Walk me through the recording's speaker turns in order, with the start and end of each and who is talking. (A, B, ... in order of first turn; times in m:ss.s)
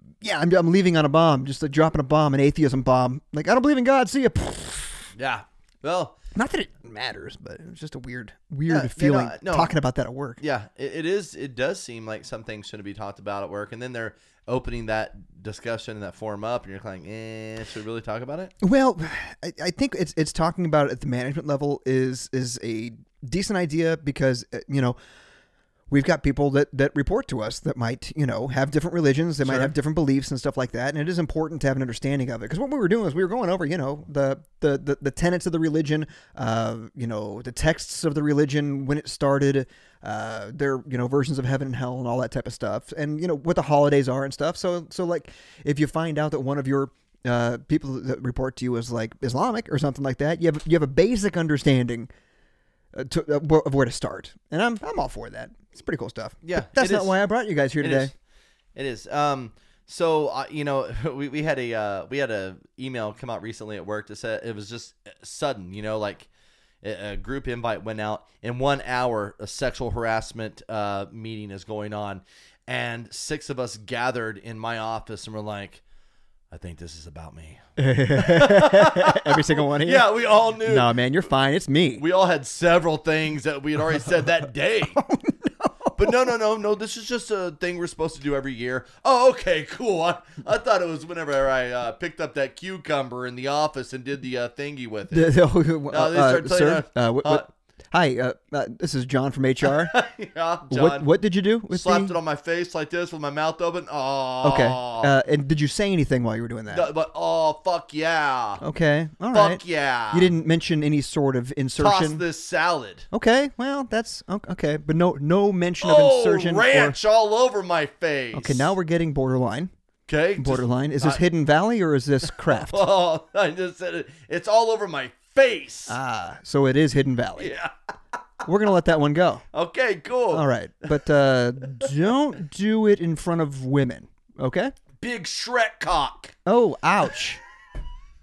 0:00.2-0:05.1 A
0:05.1-0:06.1 B
0:06.3-0:10.4 A
0:08.7-0:09.7 B
0:10.4-0:18.5 B
0:18.6-0:25.0 A
0:25.9-0:52.1 A
0:29.4-0:29.7 B
0:52.9-0:58.1 A
0:56.4-0:57.2 B
0:57.8-0:58.1 B
0:58.7-1:06.3 B
1:06.8-1:15.8 B
1:16.5-1:20.9 B
1:17.8-1:22.0 A
1:22.0-1:25.0 B
1:24.9-1:26.2 A
1:26.0-1:35.3 B
1:35.1-1:40.0 A
1:35.9-1:37.5 B
1:39.6-1:41.0 B
1:40.7-1:42.2 A
1:41.7-1:45.1 B
1:44.4-1:46.9 A
1:46.7-1:48.6 B
1:48.6-1:52.2 A
1:49.3-1:50.3 B
1:51.8-1:53.0 B
1:53.1-1:57.0 A
1:55.8-1:58.7 B
1:58.3-1:59.7 A
2:00.1-2:01.2 B
2:00.4-2:02.8 A
2:02.3-2:06.0 B
2:05.9-2:07.5 A
2:07.4-2:07.7 B
2:08.4-2:09.4 A
2:09.5-2:10.4 B
2:10.3-2:14.7 A
2:15.0-2:16.3 B
2:16.4-2:17.4 A